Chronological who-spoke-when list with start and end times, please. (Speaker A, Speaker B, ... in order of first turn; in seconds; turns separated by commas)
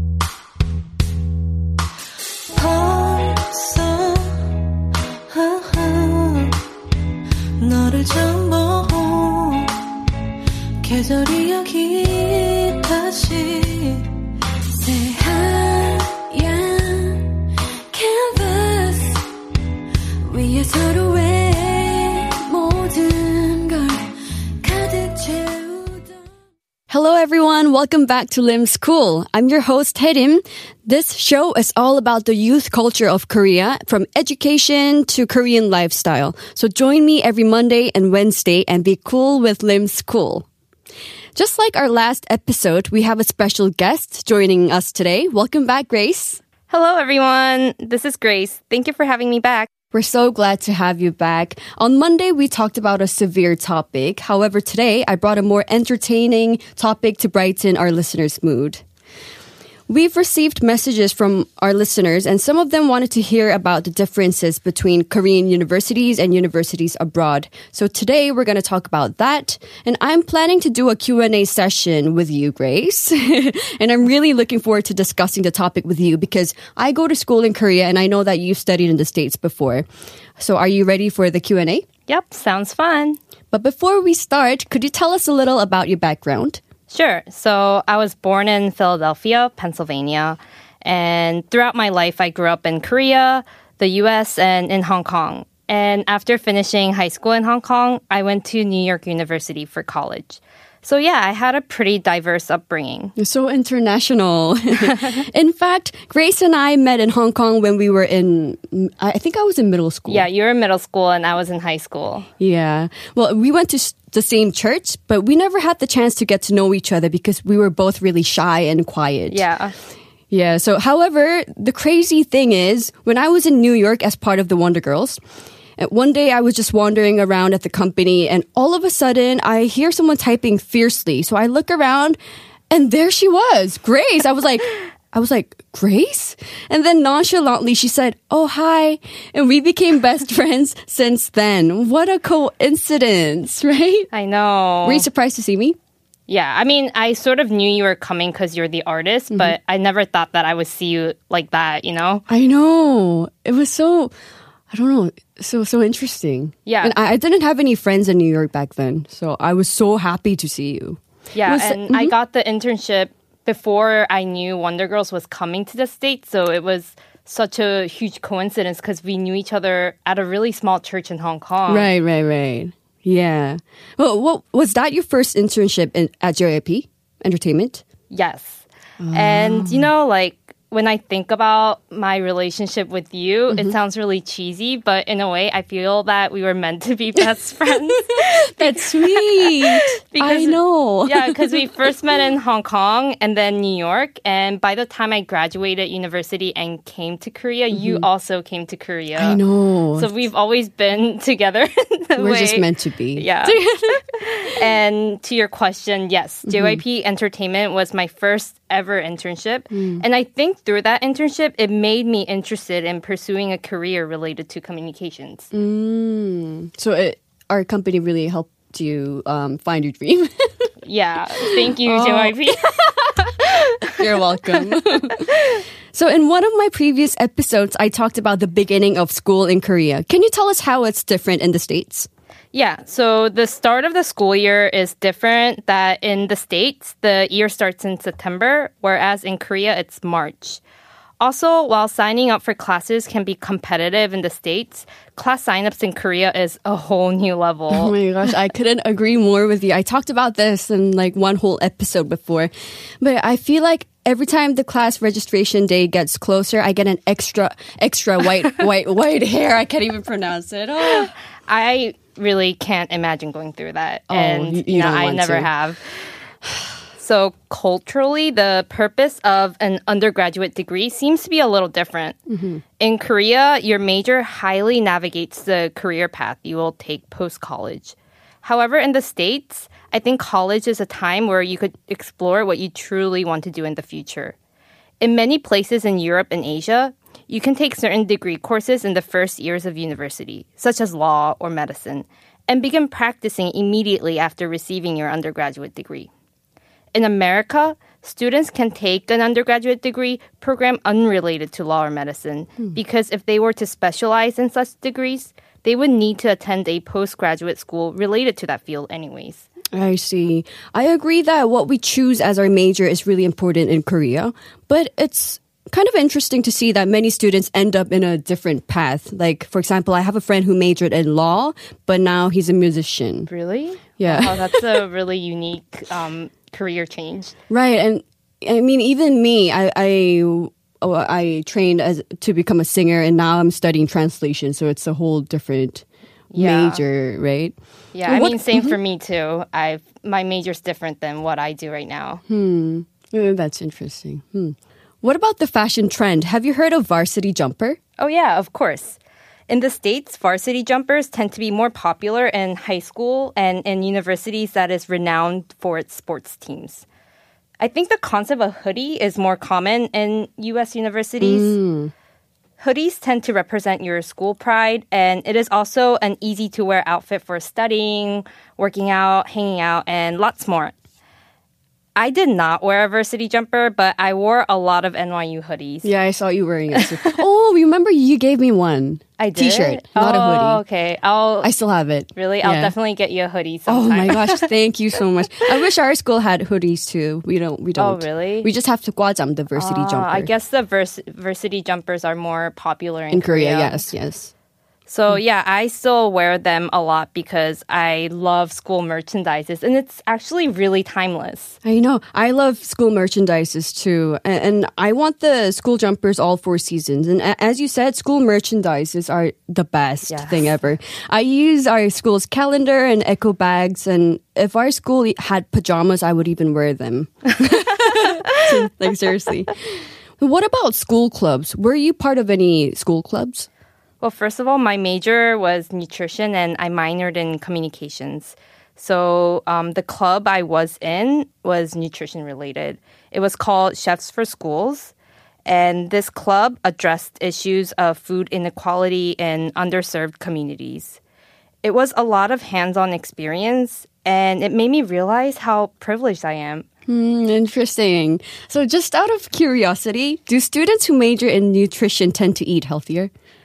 Speaker A: 2.5-4.5, Speaker A: 5.3-6.6, Speaker A: 7.6-9.8, Speaker A: 10.8-14.1, Speaker B: 14.8-17.3, Speaker B: 17.9-19.2, Speaker B: 20.3-24.1, Speaker B: 24.6-26.0, Speaker B: 26.9-40.5, Speaker B: 41.4-46.4, Speaker C: 46.7-49.7, Speaker B: 49.9-58.8, Speaker B: 59.9-79.9, Speaker B: 80.4-81.9, Speaker C: 82.1-83.2, Speaker B: 83.5-86.6, Speaker C: 86.9-103.1, Speaker B: 103.2-110.3, Speaker C: 104.8-105.2, Speaker C: 110.1-112.3, Speaker B: 112.4-119.5, Speaker C: 119.3-119.8, Speaker B: 120.3-125.2, Speaker B: 125.8-132.2, Speaker B: 132.7-144.1, Speaker C: 144.1-145.1, Speaker B: 144.8-145.8, Speaker C: 146.3-152.2, Speaker B: 149.3-149.6, Speaker B: 152.3-154.1, Speaker B: 154.7-162.1, Speaker C: 156.7-156.9, Speaker C: 161.3-171.9, Speaker B: 171.7-177.8, Speaker C: 178.1-199.4, Speaker B: 179.0-179.9, Speaker B: 183.5-183.8, Speaker B: 188.2-191.7, Speaker B: 197.7-198.1, Speaker B: 199.2-200.2, Speaker C: 199.9-215.5, Speaker B: 202.2-204.0, Speaker B: 206.5-206.8, Speaker B: 209.7-210.0, Speaker B: 215.5-220.7, Speaker C: 220.8-225.6, Speaker B: 221.4-223.1, Speaker B: 223.9-232.1, Speaker C: 232.5-240.6, Speaker C: 241.2-247.9, Speaker B: 247.7-261.1, Speaker C: 260.8-265.8, Speaker B: 264.1-265.5, Speaker C: 266.9-272.2, Speaker B: 272.3-272.6, Speaker C: 272.8-284.4, Speaker C: 285.0-296.1, Speaker C: 296.9-309.5, Speaker B: 309.7-323.3, Speaker C: 323.3-327.3, Speaker B: 324.0-324.8, Speaker B: 327.5-338.8, Speaker C: 336.3-336.8, Speaker C: 337.9-342.2, Speaker B: 342.3-347.8, Speaker C: 348.0-356.9, Speaker C: 357.6-361.6, Speaker B: 361.2-361.9, Speaker C: 362.6-370.8, Speaker C: 372.0-375.9, Speaker B: 375.8-380.6, Speaker C: 376.8-377.2, Speaker C: 379.2-381.5, Speaker B: 381.4-382.8, Speaker C: 382.1-384.5, Speaker B: 383.7-390.3, Speaker C: 387.8-388.5, Speaker C: 389.5-393.9, Speaker B: 393.1-394.3, Speaker C: 394.9-401.6, Speaker B: 401.6-419.6, Speaker C: 410.1-410.6, Speaker B: 420.2-423.5, Speaker C: 424.0-434.9, Speaker C: 435.4-441.0, Speaker C: 441.6-446.7, Speaker B: 446.9-453.1